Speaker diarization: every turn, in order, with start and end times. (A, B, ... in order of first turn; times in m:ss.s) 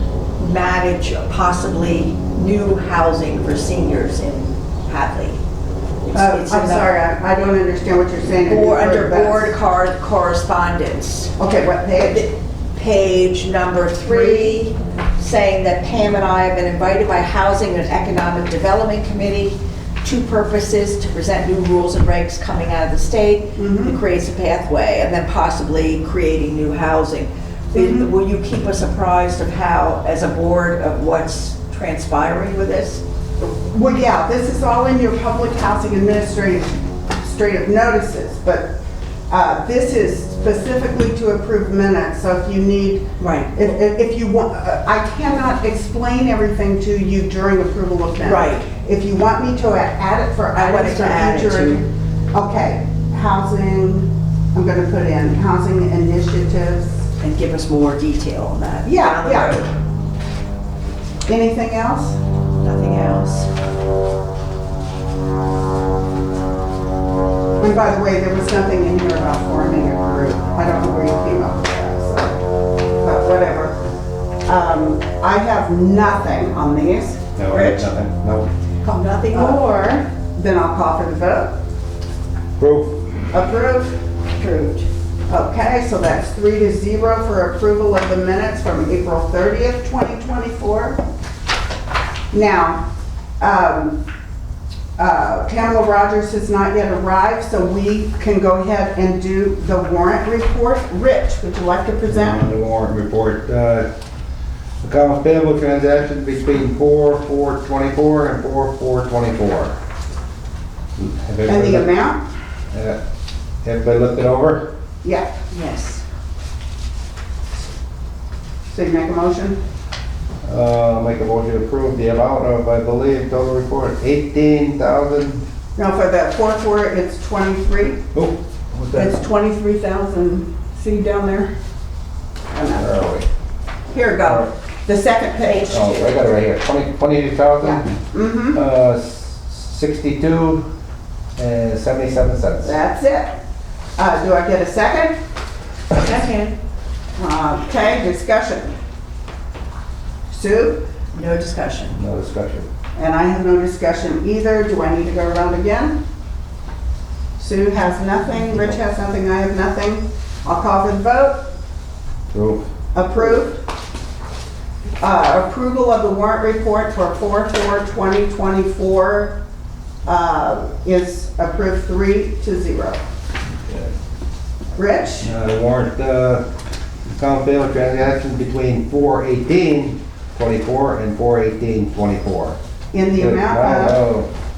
0:00.4-0:05.4 A
0:06.0-0:06.9 A
0:06.1-0:09.5 B
0:08.5-0:11.3 A
0:11.4-0:12.3 B
0:12.7-0:33.0 A
0:14.1-0:14.6 B
0:23.6-0:24.0 B
0:27.7-0:28.1 B
0:33.4-0:38.7 B
0:39.3-0:43.0 B
0:43.2-0:43.7 A
0:43.5-0:57.0 B
0:48.2-0:48.7 A
0:50.5-0:51.8 A
0:57.2-0:59.7 A
0:58.8-0:59.6 B
1:01.3-1:02.2 B
1:02.6-1:03.5 A
1:07.6-1:12.4 B
1:13.0-1:13.8 B
1:14.4-1:17.7 B
1:17.4-1:18.5 C
1:18.8-1:20.0 A
1:19.3-1:19.6 B
1:20.4-1:21.5 B
1:22.6-1:23.0 C
1:23.3-1:24.0 B
1:24.4-1:24.9 A
1:25.3-1:31.0 B
1:32.3-1:32.8 B
1:33.4-1:34.0 B
1:35.0-1:42.4 B
1:42.1-1:43.9 C
1:44.8-1:49.8 C
1:51.0-1:51.9 C
1:51.5-1:52.2 B
1:52.7-1:53.0 C
1:53.6-1:54.7 C
1:55.0-1:55.3 B
1:55.5-1:56.0 A
1:58.7-1:59.6 B
2:00.4-2:05.4 C
2:05.8-2:08.0 B
2:08.1-2:09.2 C
2:08.9-2:11.5 B
2:12.5-2:12.9 B
2:12.7-2:13.3 C
2:13.9-2:15.8 B
2:15.4-2:16.1 A
2:15.7-2:18.0 C
2:17.6-2:18.6 B
2:18.5-2:20.6 C
2:21.4-2:22.8 C
2:22.6-2:23.4 B
2:24.0-2:25.2 B
2:25.9-2:26.5 A
2:27.2-2:28.8 B
2:30.3-2:30.8 B
2:31.1-2:32.0 A
2:32.0-2:32.7 C
2:32.9-2:36.0 B
2:37.4-2:41.4 B
2:42.3-2:42.7 C
2:42.9-2:43.6 B
2:45.0-2:49.3 B
2:50.0-2:53.0 B
2:54.8-2:55.3 B
2:55.2-2:56.4 C
2:57.2-3:02.6 C
3:02.9-3:04.0 B
3:03.2-3:04.3 C